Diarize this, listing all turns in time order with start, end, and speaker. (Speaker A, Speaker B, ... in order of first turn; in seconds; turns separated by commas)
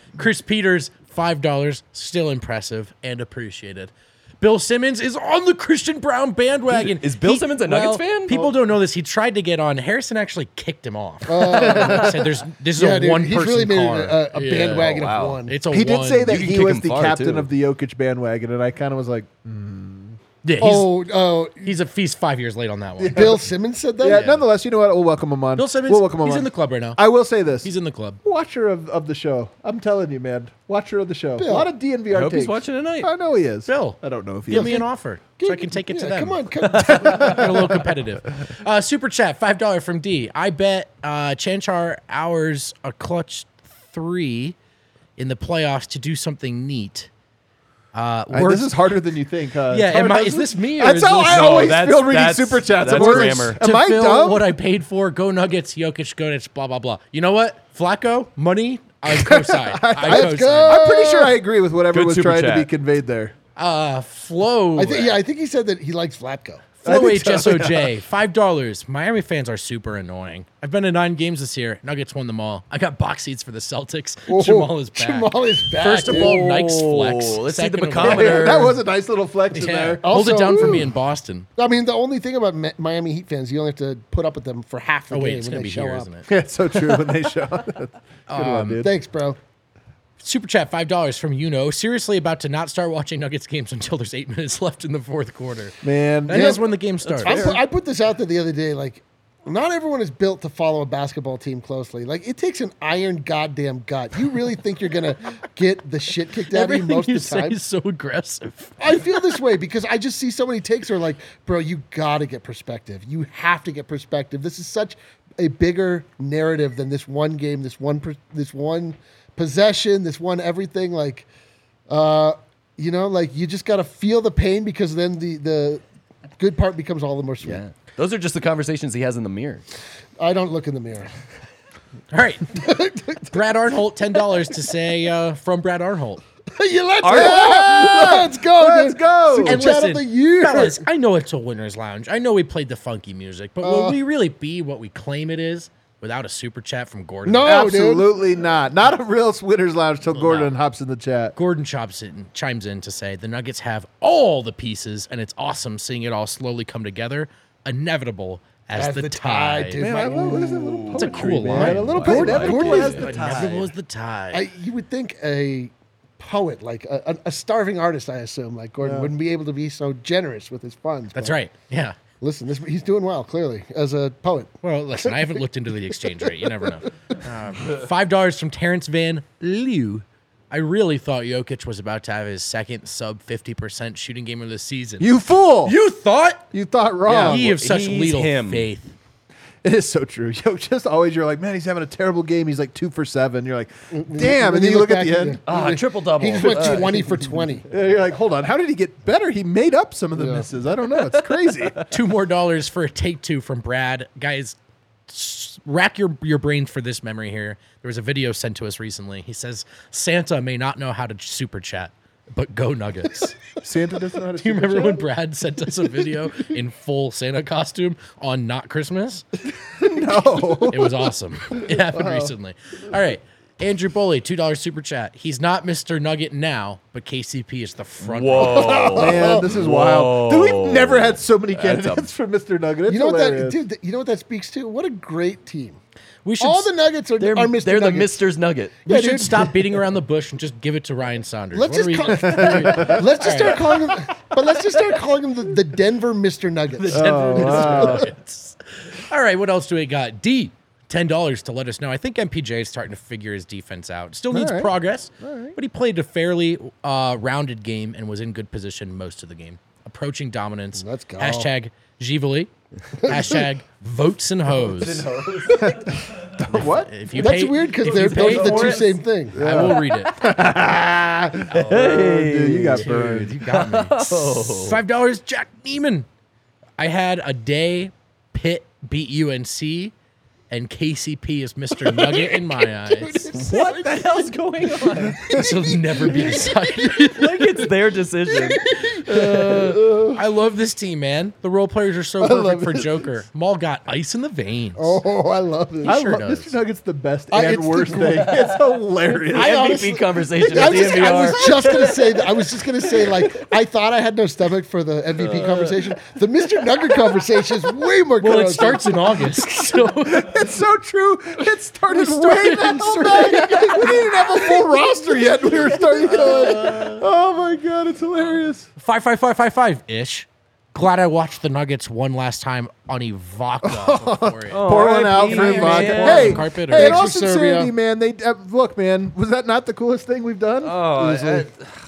Speaker A: 0.1-16.4, Speaker B: 6.7-8.3, Speaker C: 11.3-12.1, Speaker C: 12.8-15.5, Speaker B: 14.8-15.4, Speaker D: 15.7-20.2, Speaker B: 16.3-17.5, Speaker A: 20.4-20.9, Speaker C: 20.6-21.7, Speaker A: 21.6-23.4, Speaker D: 23.0-23.4, Speaker C: 23.1-24.2, Speaker D: 24.0-27.7, Speaker A: 24.1-24.4, Speaker A: 25.6-27.0, Speaker A: 27.6-28.2, Speaker D: 28.2-34.8, Speaker C: 31.4-31.7, Speaker B: 32.1-33.1, Speaker A: 33.7-34.0, Speaker A: 34.5-44.5, Speaker C: 34.5-34.8, Speaker C: 35.4-37.4, Speaker D: 36.8-37.9, Speaker A: 45.2-47.1, Speaker A: 47.9-48.7, Speaker D: 48.3-54.5, Speaker A: 49.7-51.8, Speaker B: 51.2-53.6, Speaker A: 52.9-60.8, Speaker D: 59.0-63.3, Speaker C: 60.0-61.4, Speaker B: 61.9-62.7, Speaker A: 63.5-65.2, Speaker C: 64.8-66.7, Speaker A: 66.8-78.6, Speaker D: 66.8-67.9, Speaker C: 74.3-76.4, Speaker B: 76.0-78.8, Speaker D: 78.0-80.8, Speaker A: 79.5-81.5, Speaker C: 80.0-80.9, Speaker C: 81.6-86.1, Speaker A: 85.1-86.2, Speaker D: 86.3-88.9, Speaker A: 88.3-88.8, Speaker C: 88.8-89.4, Speaker A: 90.2-97.4, Speaker D: 95.8-96.6, Speaker C: 96.3-107.6, Speaker D: 97.1-97.6, Speaker A: 106.5-109.1, Speaker C: 108.8-121.3, Speaker C: 121.9-125.8, Speaker C: 126.4-127.6, Speaker B: 127.4-129.6, Speaker C: 130.2-131.1, Speaker A: 132.1-132.6, Speaker C: 132.5-133.4, Speaker A: 133.3-136.2, Speaker C: 136.5-140.8, Speaker B: 137.0-137.8, Speaker D: 137.0-139.6, Speaker A: 139.4-147.5, Speaker C: 143.6-144.0, Speaker C: 147.2-148.1, Speaker D: 147.4-151.3, Speaker A: 150.2-150.5, Speaker A: 151.3-160.0, Speaker C: 158.7-160.8, Speaker D: 159.8-163.7, Speaker B: 160.3-163.6, Speaker A: 160.9-164.4, Speaker C: 161.5-162.9, Speaker C: 164.3-171.4, Speaker D: 168.8-169.1, Speaker A: 171.1-171.9, Speaker C: 172.2-174.5, Speaker A: 174.6-185.1, Speaker D: 185.0-185.8, Speaker A: 185.6-186.4, Speaker D: 186.5-187.5, Speaker B: 187.1-188.7, Speaker A: 187.2-188.9, Speaker D: 189.6-195.4, Speaker C: 193.9-197.7, Speaker B: 195.5-197.2, Speaker D: 197.6-201.8, Speaker C: 200.2-200.4, Speaker A: 201.9-204.6, Speaker A: 205.1-213.5, Speaker D: 213.6-215.0, Speaker A: 214.4-219.2, Speaker D: 219.7-222.3, Speaker A: 220.7-229.0, Speaker B: 228.0-232.1, Speaker C: 228.4-229.4, Speaker D: 228.9-233.6, Speaker C: 232.9-235.8, Speaker A: 236.2-236.7, Speaker C: 236.4-238.2, Speaker B: 237.2-238.8, Speaker C: 238.8-239.6, Speaker A: 238.9-243.8, Speaker C: 241.5-248.1, Speaker D: 242.1-244.0, Speaker A: 246.8-248.6, Speaker D: 246.9-248.1, Speaker A: 249.1-265.1, Speaker D: 254.3-255.6, Speaker C: 260.8-261.5, Speaker C: 263.0-263.4, Speaker B: 264.5-265.9, Speaker D: 266.4-266.9, Speaker A: 266.5-270.1, Speaker C: 267.1-269.6, Speaker B: 267.8-268.9, Speaker D: 269.3-273.3, Speaker B: 269.5-270.1, Speaker A: 271.5-272.1, Speaker B: 271.5-274.8, Speaker A: 272.7-276.1, Speaker A: 276.8-279.9, Speaker A: 280.5-283.3, Speaker C: 282.3-284.3, Speaker B: 283.3-285.4, Speaker C: 285.1-287.4, Speaker A: 285.3-287.4, Speaker B: 287.1-289.9, Speaker C: 288.3-290.1, Speaker A: 290.1-295.0, Speaker C: 292.2-293.0, Speaker C: 294.8-296.0, Speaker A: 295.8-296.5, Speaker D: 295.9-299.6, Speaker C: 297.3-298.4, Speaker B: 298.0-298.6, Speaker C: 299.3-309.6, Speaker B: 299.3-302.4, Speaker D: 300.9-301.3, Speaker B: 305.2-305.9, Speaker A: 308.2-310.3, Speaker D: 310.1-318.7, Speaker A: 311.9-314.1, Speaker C: 313.1-314.9, Speaker C: 315.4-316.7, Speaker A: 316.1-317.0, Speaker A: 318.8-326.9, Speaker D: 323.6-331.5, Speaker B: 324.5-326.4, Speaker C: 326.6-327.7, Speaker B: 330.6-331.7